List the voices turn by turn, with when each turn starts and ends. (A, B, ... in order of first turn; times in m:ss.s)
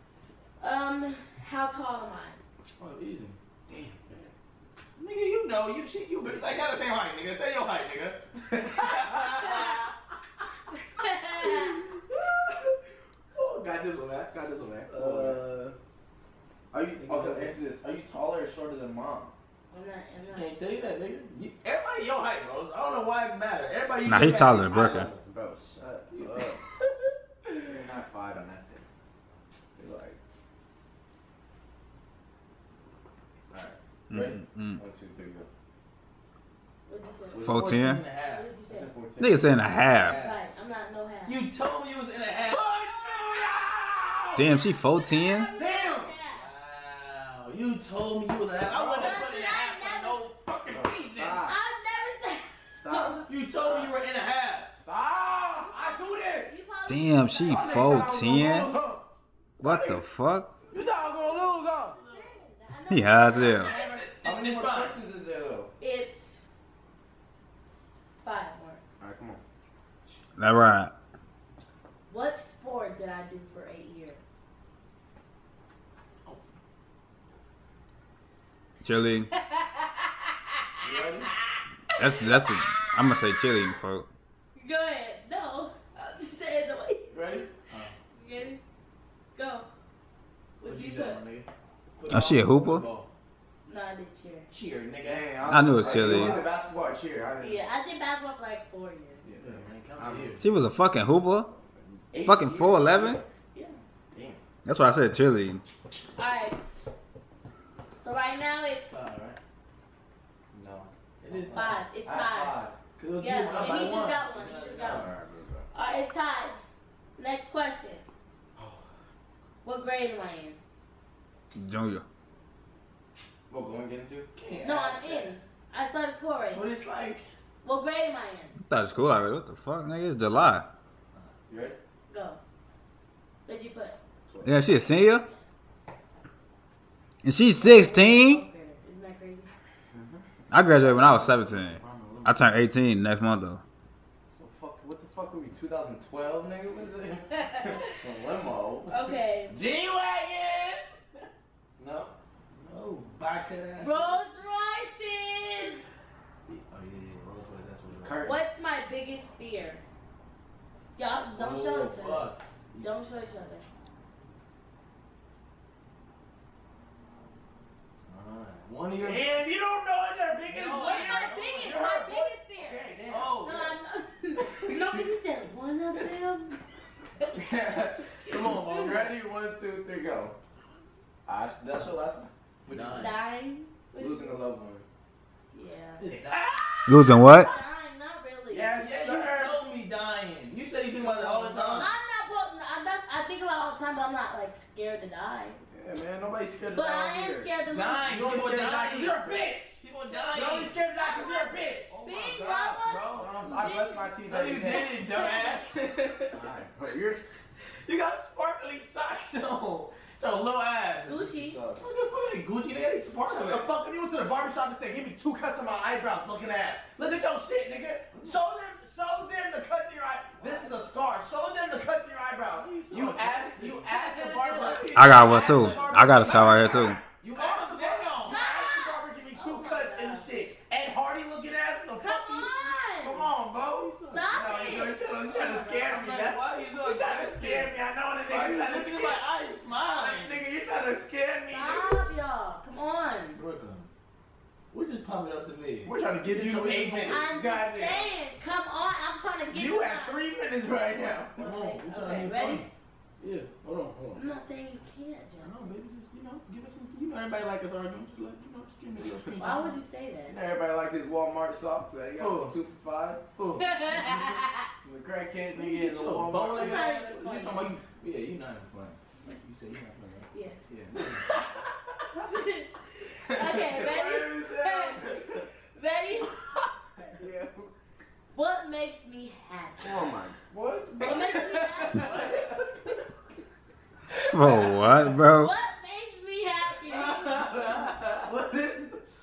0:00.6-0:02.4 A
0:02.8-0:03.4 B
0:03.7-0:04.0 C
0:05.0-0:09.9 B
0:11.0-0:11.8 A
0:11.4-0:12.6 C
0:13.4-0:15.8 C
0:13.4-0:15.5 B
0:16.7-0:19.3 C
0:17.0-0:17.6 B
0:19.7-0:20.5 A
0:20.2-0:25.2 B
0:24.0-0:25.1 D
0:25.0-0:26.6 C
0:26.1-0:26.9 B
0:27.6-0:28.8 C
0:29.8-0:30.2 C
0:33.5-0:35.5 C
0:34.1-0:34.8 D
0:36.9-0:37.5 A
0:37.2-0:37.6 C
0:37.4-0:38.5 B
0:37.4-0:38.0 D
0:38.3-0:38.9 A
0:38.7-0:39.6 C
0:39.2-0:40.3 D
0:40.0-0:41.4 A
0:40.0-0:40.4 B
0:41.2-0:42.7 B
0:42.4-0:44.6 C
0:42.6-0:46.5 A
0:44.4-0:45.5 D
0:45.6-0:46.1 C
0:46.3-0:51.4 B
0:48.6-0:49.3 C
0:48.9-0:50.2 A
0:50.7-0:51.6 C
0:51.4-0:53.3 A
0:52.7-0:53.9 C
0:53.3-0:54.7 B
0:54.7-0:56.6 C
0:55.6-0:58.6 A
0:56.9-0:58.7 D
0:57.5-0:59.0 C
0:59.6-1:00.0 C
0:59.6-1:00.5 D
1:00.6-1:02.0 C
1:00.7-1:02.3 B
1:01.8-1:04.1 A
1:02.9-1:03.7 D
1:03.6-1:05.0 B
1:04.2-1:05.7 C
1:05.8-1:06.4 A
1:08.2-1:08.8 A
1:09.0-1:09.4 C
1:10.4-1:10.9 D
1:12.1-1:14.4 A
1:18.8-1:19.3 D
1:19.4-1:20.2 A
1:20.8-1:21.3 B
1:21.5-1:23.1 A
1:22.0-1:24.1 D
1:24.6-1:27.2 A
1:27.1-1:27.9 B
1:28.1-1:28.6 A
1:29.4-1:29.7 A
1:30.6-1:31.2 A
1:30.6-1:33.1 B
1:32.1-1:32.8 D
1:33.6-1:34.5 A
1:34.5-1:36.3 B
1:35.0-1:37.6 C
1:35.4-1:36.4 D
1:36.1-1:36.4 A
1:37.4-1:39.2 A
1:39.2-1:40.4 C
1:39.4-1:40.4 B
1:40.4-1:41.5 D
1:41.5-1:43.2 C
1:42.2-1:43.2 D
1:43.5-1:43.8 A
1:44.1-1:44.4 C
1:44.6-1:45.6 D
1:46.2-1:46.6 A
1:48.0-1:48.9 A
1:48.7-1:49.4 B
1:50.5-1:52.8 C
1:51.2-1:51.8 B
1:51.5-1:52.6 A
1:53.0-1:55.1 B
1:53.2-1:55.1 A
1:53.3-1:54.2 C
1:54.8-1:55.7 C
1:55.7-1:56.6 A
1:57.2-1:58.0 A
1:58.6-1:58.9 C
1:59.6-2:00.6 A
2:01.5-2:02.0 D
2:03.5-2:04.3 C
2:04.4-2:05.4 B
2:04.6-2:06.6 A
2:06.5-2:07.3 B
2:07.6-2:08.6 A
2:08.6-2:10.7 D
2:11.5-2:11.8 C
2:12.1-2:12.4 A
2:13.5-2:14.0 A
2:14.3-2:14.7 C
2:14.4-2:15.2 D
2:14.8-2:15.4 A
2:17.2-2:18.4 D
2:17.5-2:19.5 A
2:19.9-2:22.4 C
2:20.5-2:23.6 D
2:24.3-2:31.0 C
2:27.4-2:27.9 A
2:28.9-2:29.6 A
2:31.8-2:32.1 C
2:32.5-2:34.2 B
2:33.8-2:35.8 A
2:36.5-2:38.2 B
2:38.0-2:38.4 C
2:38.2-2:39.8 A
2:41.0-2:42.3 A
2:41.3-2:43.0 B
2:42.8-2:43.7 A
2:48.1-2:49.4 B
2:49.0-2:53.7 C
2:50.5-2:51.7 B
2:50.7-2:56.6 A
2:53.1-2:53.7 B
2:54.4-2:55.1 C
2:57.3-2:59.1 B
2:58.5-3:00.4 C
3:01.3-3:03.0 C
3:02.7-3:03.2 B
3:02.9-3:04.4 A
3:04.0-3:04.9 C
3:05.5-3:06.0 A
3:06.0-3:06.6 B
3:06.2-3:07.4 C
3:06.9-3:07.5 D
3:07.0-3:08.8 A
3:08.5-3:09.6 C
3:08.8-3:11.9 B
3:11.0-3:11.9 C
3:11.7-3:15.6 A
3:15.7-3:17.5 C
3:16.7-3:18.3 A
3:17.7-3:20.8 B
3:18.0-3:21.9 C
3:20.1-3:25.7 A
3:21.9-3:23.7 B
3:23.1-3:25.0 C
3:24.3-3:26.5 B
3:26.3-3:27.2 C
3:27.6-3:31.2 B
3:31.1-3:31.6 A
3:31.1-3:31.9 C
3:31.8-3:33.8 B
3:33.3-3:59.2 C
3:42.5-3:48.5 B
3:43.9-3:45.7 A
3:44.9-3:47.0 D
3:48.2-3:50.3 A
3:52.0-3:53.3 A
3:53.6-3:54.8 B
3:54.0-3:56.1 A
3:55.7-4:00.5 B
3:59.9-4:02.1 C
4:01.5-4:03.4 A
4:03.3-4:03.9 B
4:04.7-4:07.3 B
4:05.8-4:08.1 C
4:07.0-4:10.2 A
4:09.5-4:11.4 C
4:11.3-4:14.2 B
4:11.4-4:12.7 A
4:14.1-4:15.7 A
4:15.4-4:19.8 B
4:19.4-4:20.4 A
4:20.3-4:23.2 C
4:22.2-4:22.6 B
4:23.4-4:24.3 B
4:23.6-4:24.7 A
4:24.8-4:26.8 C
4:25.6-4:31.3 B
4:26.5-4:27.8 A
4:30.3-4:30.6 A
4:32.2-4:35.1 A
4:33.3-4:33.6 B
4:33.5-4:35.5 C
4:35.7-4:36.3 A
4:37.2-4:37.7 C
4:38.3-4:40.1 A
4:39.8-4:41.3 C
4:41.0-4:42.6 B
4:41.0-4:43.0 A
4:41.9-4:42.6 C
4:44.1-4:44.8 B
4:44.3-4:45.5 D
4:45.4-4:47.3 A
4:46.8-4:48.3 B
4:47.2-4:49.0 C